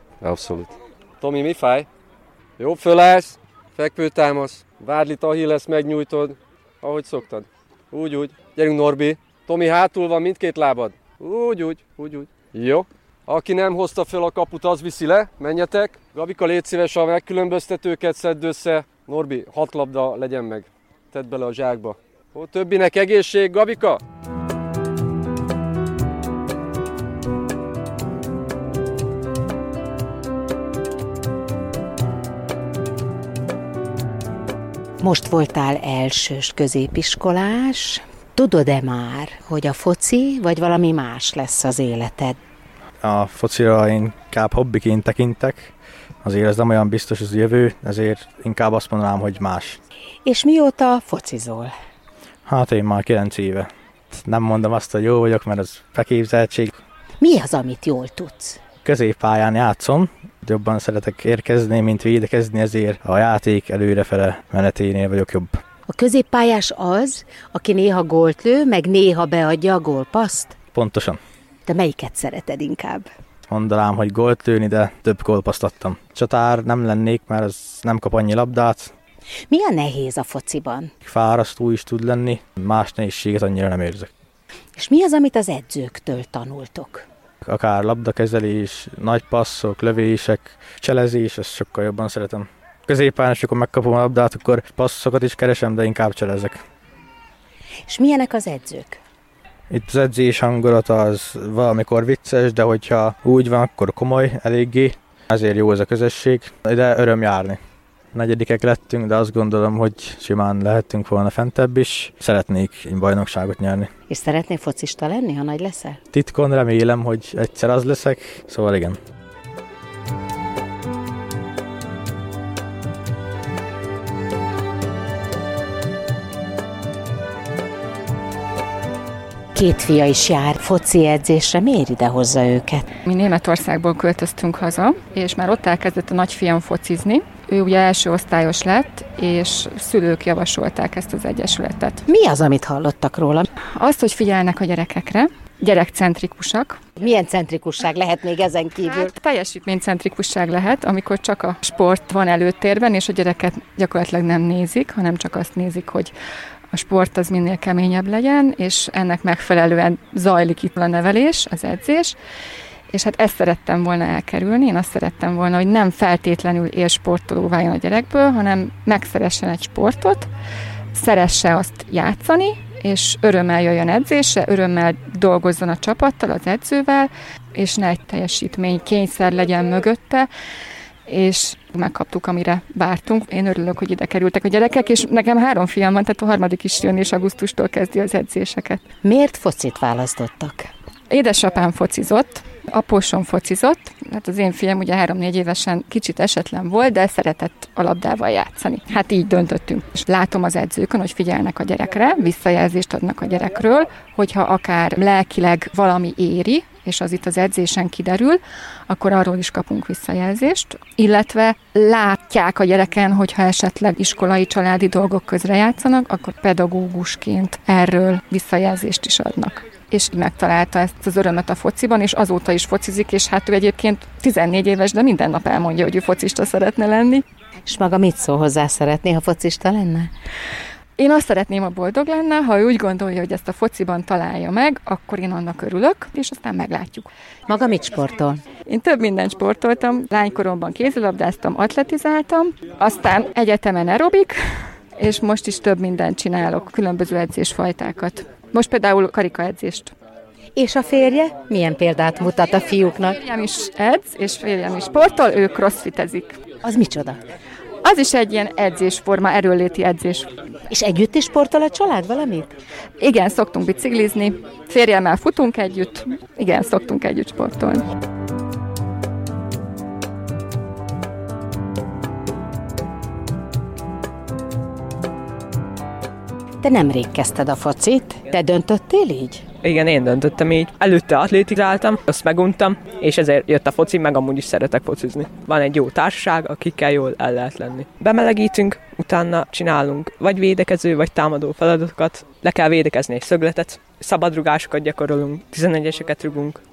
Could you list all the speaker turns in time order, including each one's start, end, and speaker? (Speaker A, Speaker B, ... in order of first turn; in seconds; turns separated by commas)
Speaker A: 0.2-1.9, Speaker A: 2.6-24.0, Speaker B: 35.0-42.4, Speaker C: 43.0-45.7, Speaker C: 46.2-49.8, Speaker B: 50.2-51.7, Speaker C: 52.5-56.8, Speaker B: 57.2-58.6, Speaker C: 58.8-65.6, Speaker B: 65.9-70.6, Speaker C: 70.7-71.2, Speaker B: 71.7-73.1, Speaker C: 73.5-78.9, Speaker B: 79.5-80.9, Speaker C: 81.0-84.1, Speaker B: 84.7-87.0, Speaker C: 87.4-96.6, Speaker B: 97.9-99.0, Speaker C: 99.7-107.6, Speaker C: 108.1-113.9, Speaker B: 114.1-116.0, Speaker C: 116.1-119.0, Speaker B: 129.5-132.9, Speaker D: 133.0-142.0, Speaker B: 142.1-143.5, Speaker D: 143.7-146.8, Speaker B: 147.0-149.1, Speaker D: 148.8-156.1, Speaker D: 156.7-162.2, Speaker D: 162.9-170.3, Speaker D: 170.9-180.3, Speaker D: 181.1-188.8, Speaker B: 189.0-190.7, Speaker D: 191.1-227.2, Speaker B: 227.6-230.1, Speaker D: 231.0-237.1, Speaker B: 237.5-238.4, Speaker D: 238.6-244.4, Speaker D: 244.9-249.9, Speaker B: 250.6-253.2, Speaker D: 253.2-256.4, Speaker B: 256.6-257.2, Speaker D: 257.8-260.3, Speaker B: 260.7-262.6, Speaker D: 263.0-267.8, Speaker B: 276.6-279.5, Speaker E: 279.6-296.6